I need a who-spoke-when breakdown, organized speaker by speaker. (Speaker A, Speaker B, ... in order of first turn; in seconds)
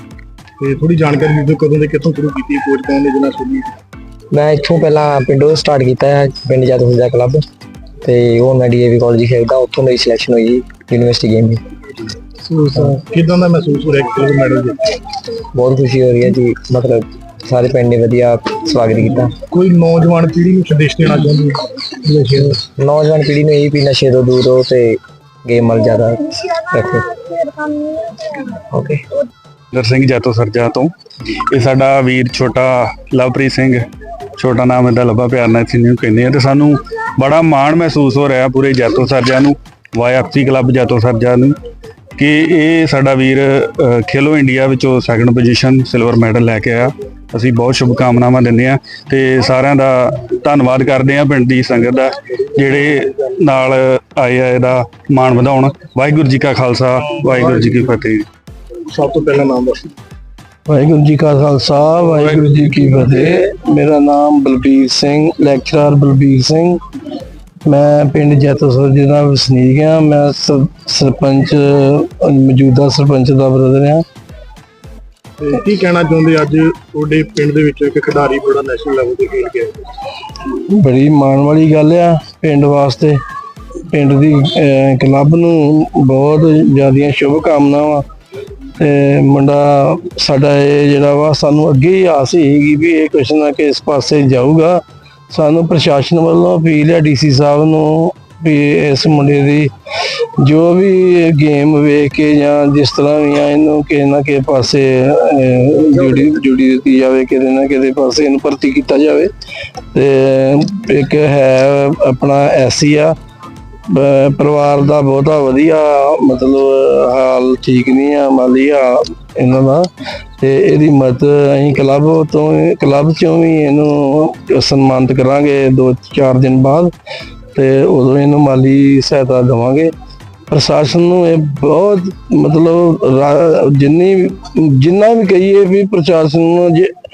Speaker A: 0.6-3.7, 12.0-14.9, 19.5-22.6, 52.5-53.4, 57.0-58.0, 58.9-59.9, 75.4-79.9
Speaker B: 4.3-7.4, 8.0-11.6, 15.5-19.4, 22.4-29.1
Speaker C: 29.7-33.8, 34.4-41.5, 42.2-58.2, 62.2-62.9
Speaker D: 60.7-66.8, 67.7-74.0, 80.4-83.2, 83.9-88.0, 88.8-109.3, 109.9-113.1, 113.9-119.8, 120.4-126.9, 127.5-129.9, 130.5-136.9